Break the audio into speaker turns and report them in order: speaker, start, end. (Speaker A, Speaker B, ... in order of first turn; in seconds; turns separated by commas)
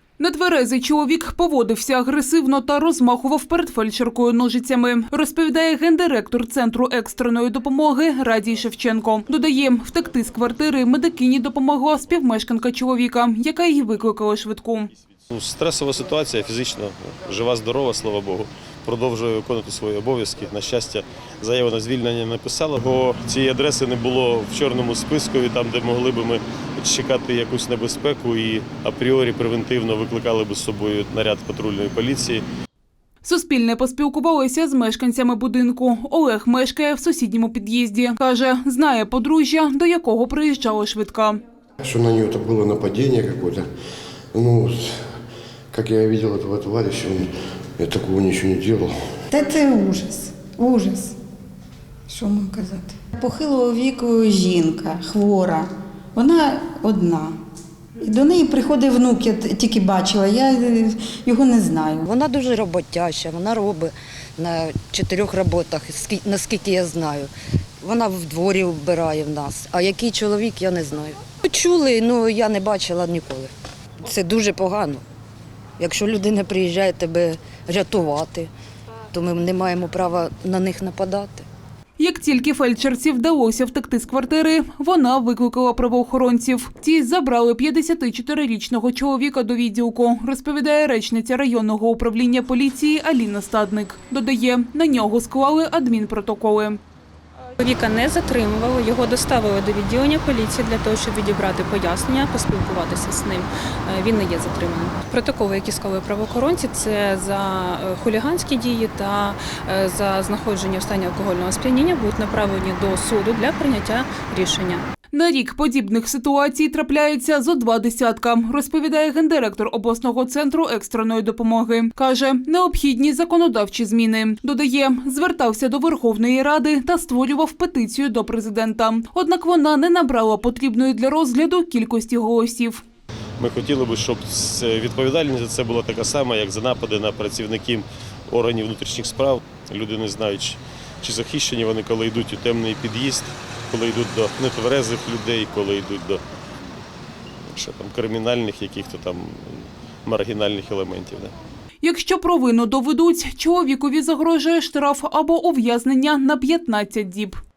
Speaker A: 0.2-14.9, Speaker B: 15.3-32.4, Speaker A: 33.2-41.4, Speaker C: 41.8-43.7, Speaker C: 44.3-45.0, Speaker C: 45.7-48.9, Speaker D: 49.3-51.1, Speaker D: 52.1-57.4, Speaker D: 58.0-62.0, Speaker E: 62.0-75.0, Speaker E: 75.8-78.5, Speaker E: 79.1-81.5, Speaker A: 82.0-96.8, Speaker F: 97.6-114.9, Speaker A: 115.1-132.8, Speaker B: 133.4-146.2, Speaker B: 147.5-151.3, Speaker A: 151.8-157.4